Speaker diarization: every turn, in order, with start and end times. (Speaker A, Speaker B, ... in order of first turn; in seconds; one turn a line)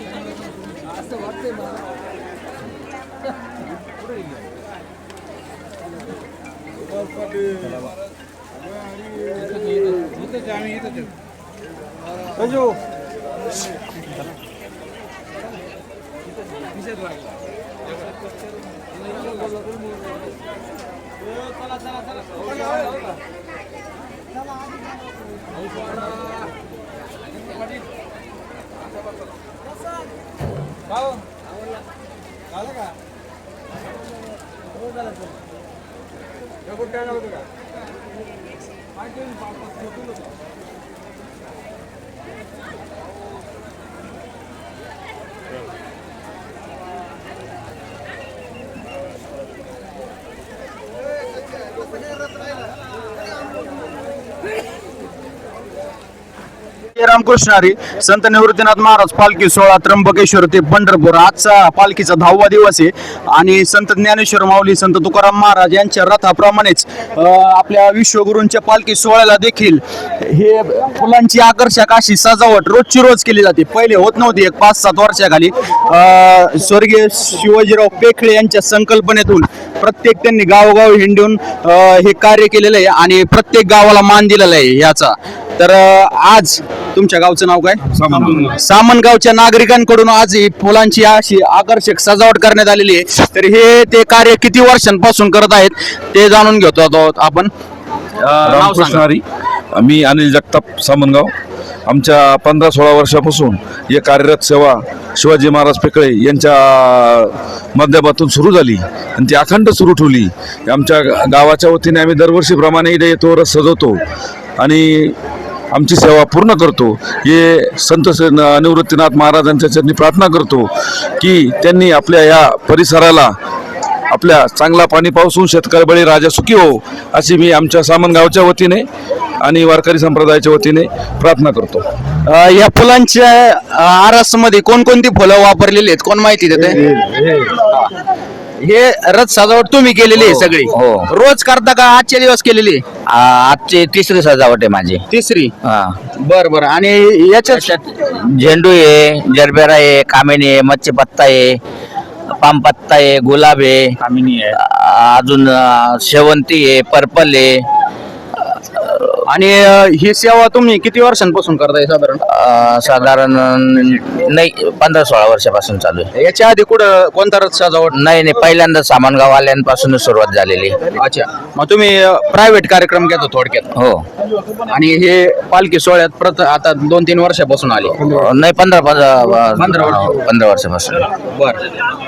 Speaker A: 57.0-97.5
Speaker B: 87.9-88.5
Speaker A: 98.2-99.0
Speaker B: 98.4-99.2
Speaker B: 99.8-101.3
Speaker B: 101.9-114.0
Speaker B: 114.6-115.2
Speaker B: 115.7-123.3
Speaker B: 124.1-128.8
Speaker B: 129.4-131.8
Speaker A: 132.2-137.9
Speaker A: 138.6-142.8
Speaker C: 140.1-141.1
Speaker C: 143.1-145.0
Speaker A: 145.1-145.5
Speaker C: 145.6-145.9
Speaker A: 146.2-147.7
Speaker C: 147.5-151.6
Speaker C: 152.4-153.9
Speaker A: 154.0-154.6
Speaker C: 154.6-157.6
Speaker C: 158.7-159.1
Speaker A: 159.2-162.2
Speaker C: 162.3-166.1
Speaker A: 166.1-167.9
Speaker C: 167.9-170.8
Speaker A: 170.9-173.7
Speaker C: 173.7-174.0
Speaker A: 174.7-178.0
Speaker C: 178.0-181.1
Speaker A: 179.6-180.1
Speaker A: 181.3-181.6